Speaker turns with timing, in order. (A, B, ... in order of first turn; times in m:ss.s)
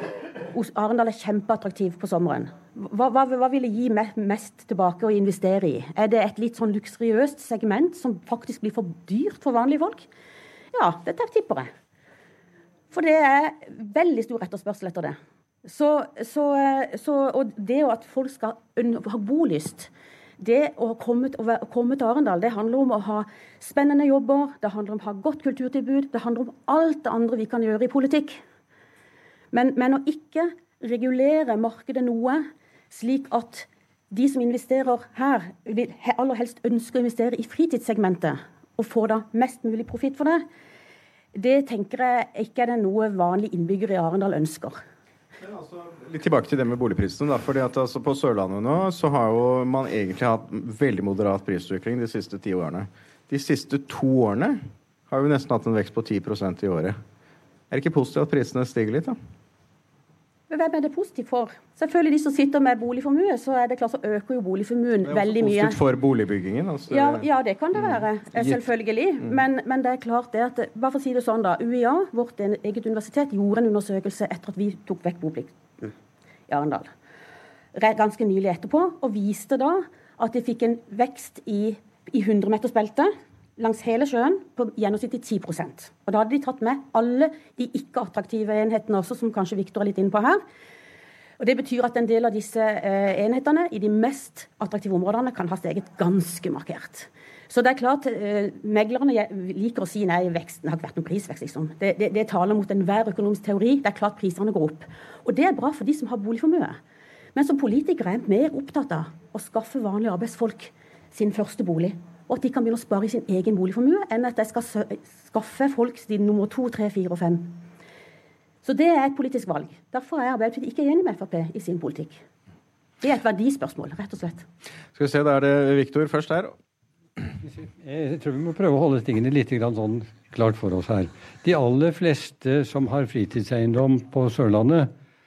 0:00.5-0:10.0 A
0:10.7-0:11.7 A
0:12.9-0:28.4 A
0:29.5-0:40.4 A
0:41.3-0:44.8 A
0:45.4-0:57.0 B
0:57.7-0:59.2 B
1:00.5-1:05.8 A
1:05.0-1:07.2 B
1:06.9-1:15.9 A
1:16.5-1:16.9 A
1:17.7-1:30.4 A
1:31.4-1:46.8 A
1:47.3-1:57.6 A
1:58.6-2:02.2 A
2:03.0-2:04.4 A
2:04.9-2:06.5 B
2:07.4-2:14.9 C